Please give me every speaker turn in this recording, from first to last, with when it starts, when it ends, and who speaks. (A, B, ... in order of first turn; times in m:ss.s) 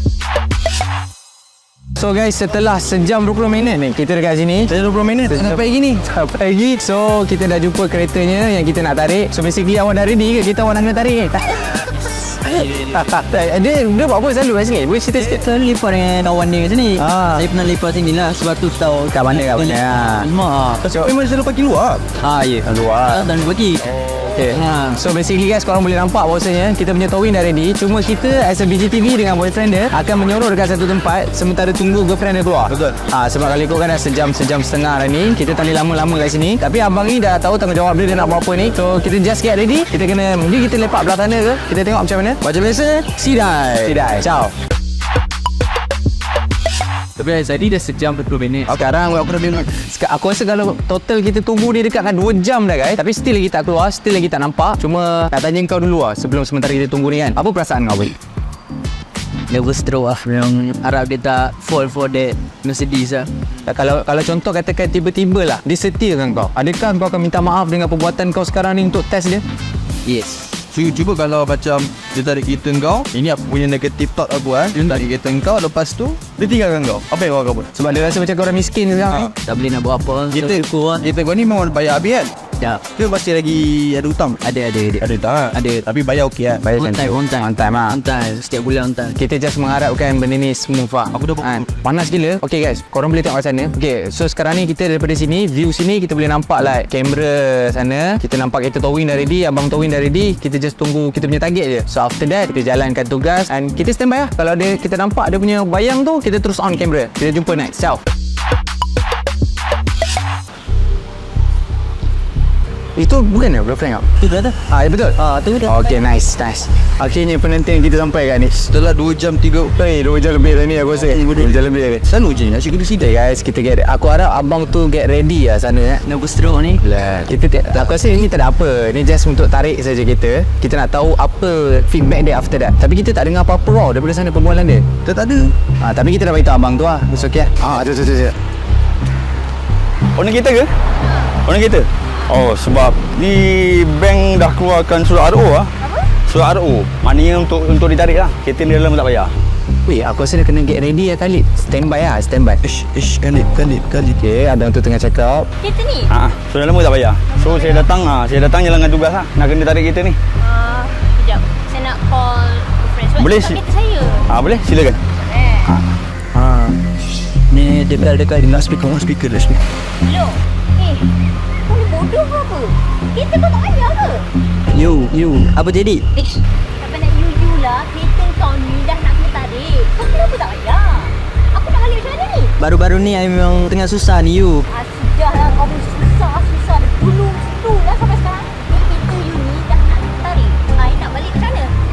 0:02.0-0:04.7 A
0:04.7-0:05.6 B
0:05.2-0:15.4 A
0:15.2-0:20.8 C
0:19.1-0:20.3 A
0:20.8-0:22.0 B
0:22.2-0:23.8 C
0:22.7-0:23.2 A
0:24.3-0:42.4 A
0:24.5-0:24.9 C
0:32.7-0:33.0 B
0:43.8-0:44.5 A
0:47.2-0:48.6 C
0:48.7-0:49.7 B
0:49.8-0:58.1 A
0:59.5-1:03.3 C
1:03.7-1:09.4 A
1:10.0-1:10.4 C
1:10.7-1:17.7 B
1:17.7-1:19.3 A
1:19.4-1:21.0 C
1:20.3-1:22.3 B
1:22.9-1:24.4 B
1:24.4-1:25.8 C
1:25.0-1:26.7 B
1:26.6-1:28.0 A
1:26.8-1:29.2 C
1:29.2-1:48.0 A
1:31.1-1:31.6 B
1:52.9-1:54.0 A
1:54.2-1:54.5 C
1:54.6-1:58.5 A
1:55.2-1:55.6 C
1:58.5-1:59.7 B
1:59.8-2:02.0 A
2:01.1-2:03.0 B
2:02.9-2:06.0 A
2:06.0-2:06.8 C
2:06.8-2:14.8 A
2:15.0-2:15.5 B
2:15.8-2:18.3 A
2:22.3-2:25.4 D
2:29.8-2:32.6 A
2:32.7-2:34.2 B
2:34.2-2:35.5 A
2:35.6-2:36.1 E
2:37.3-2:37.9 E
2:37.3-2:37.9 D
2:40.4-2:44.3 E
2:43.2-2:43.6 D
2:45.3-2:45.7 E
2:47.5-2:48.5 C
2:48.4-2:49.6 B
2:50.0-2:51.0 E
2:51.7-2:54.2 E
2:54.7-2:56.0 C
2:56.2-3:02.5 E
3:02.6-3:04.6 C
3:04.7-3:11.7 E